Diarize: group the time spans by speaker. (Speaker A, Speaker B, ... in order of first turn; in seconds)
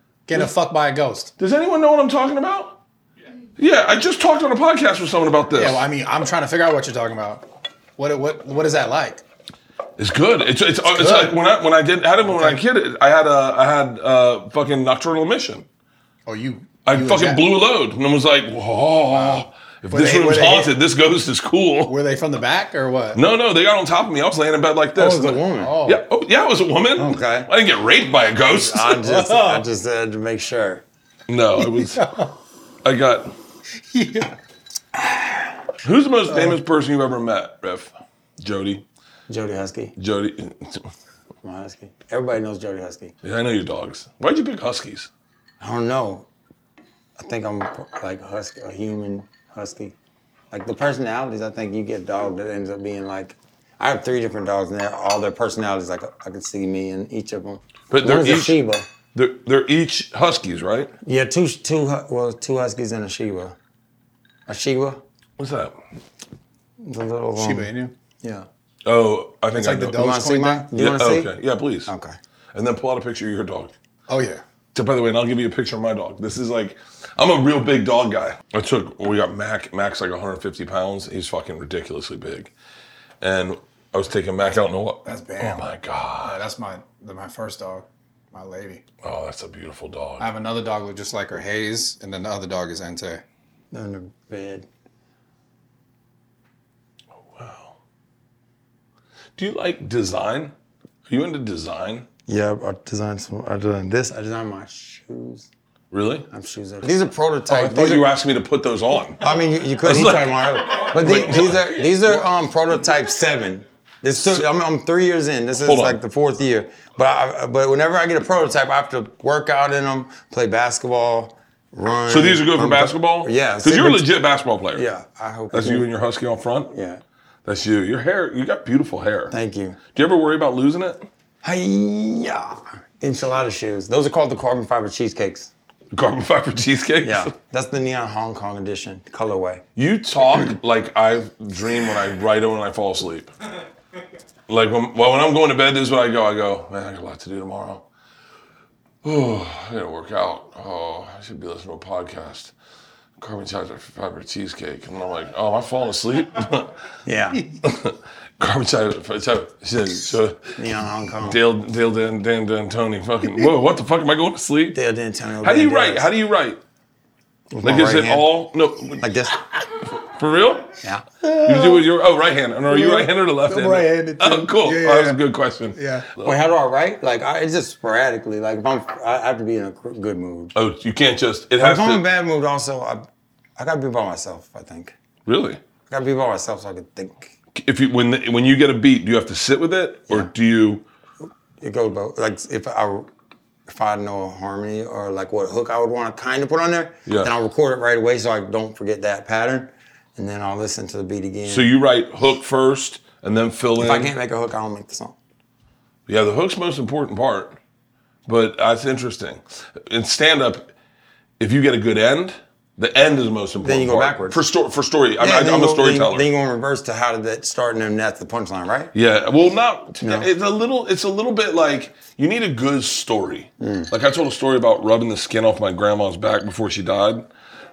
Speaker A: 0.3-1.3, 5.5-9.2, 10.8-11.3, 12.2-12.6, 16.2-17.4, 19.1-20.7, 21.8-23.2, 25.5-26.0, 28.9-29.6, 31.6-32.3, 33.9-34.4, 67.4-67.9, 69.6-70.7, 74.1-74.4, 85.0-85.7, 86.2-88.8, 90.2-93.2, 171.2-171.8, 172.7-175.2, 175.7-176.1
Speaker B: 1.4-2.8, 3.6-5.8, 10.0-15.7, 16.8-21.9, 23.1-29.0, 31.3-32.0, 32.8-33.3, 35.8-38.9, 40.0-40.9, 43.2-45.1, 57.9-60.9, 65.4-65.7, 68.8-70.1, 70.7-71.9, 72.5-73.7, 74.7-82.5, 83.2-86.4, 89.0-90.3, 97.3-97.8, 99.4-100.5, 101.1-102.1, 105.9-106.3, 107.5-109.2, 109.8-112.3, 114.2-114.4, 115.6-116.0, 122.1-124.9, 125.5-126.7, 127.4-129.3, 129.9-131.1, 135.9-137.3, 139.8-143.3, 144.5-147.8, 149.0-152.5, 153.2-156.7, 157.6-160.5, 161.2-164.8, 165.4-166.6, 167.6-170.7, 171.4-176.3, 180.5-182.0, 185.2-185.6, 187.6-190.8, 197.1-197.3, 201.4-204.1, 206.1-207.6, 208.3-210.7, 211.4-216.3, 218.9-227.3
Speaker C: 24.9-25.8, 26.9-27.5, 28.4-30.8, 35.0-35.5, 39.3-39.9, 41.4-43.1, 45.6-46.3, 47.2-49.9, 50.5-58.9, 61.0-63.5, 64.5-65.0, 66.8-67.7, 68.2-68.5, 69.5-71.3, 71.9-72.2, 93.7-94.7, 102.3-105.5, 106.3-108.1, 109.2-124.1, 124.7-125.9, 126.7-127.0, 129.3-129.8, 131.4-135.5, 137.0-139.6, 157.0-157.4, 160.6-161.4, 164.7-166.1, 167.5-168.3, 169.0-169.4, 176.2-180.5, 181.6-184.9, 185.9-187.3, 191.6-193.1, 193.7-201.7, 203.8-205.2, 213.6-214.4, 215.2-218.9, 220.0-220.3, 223.6-223.9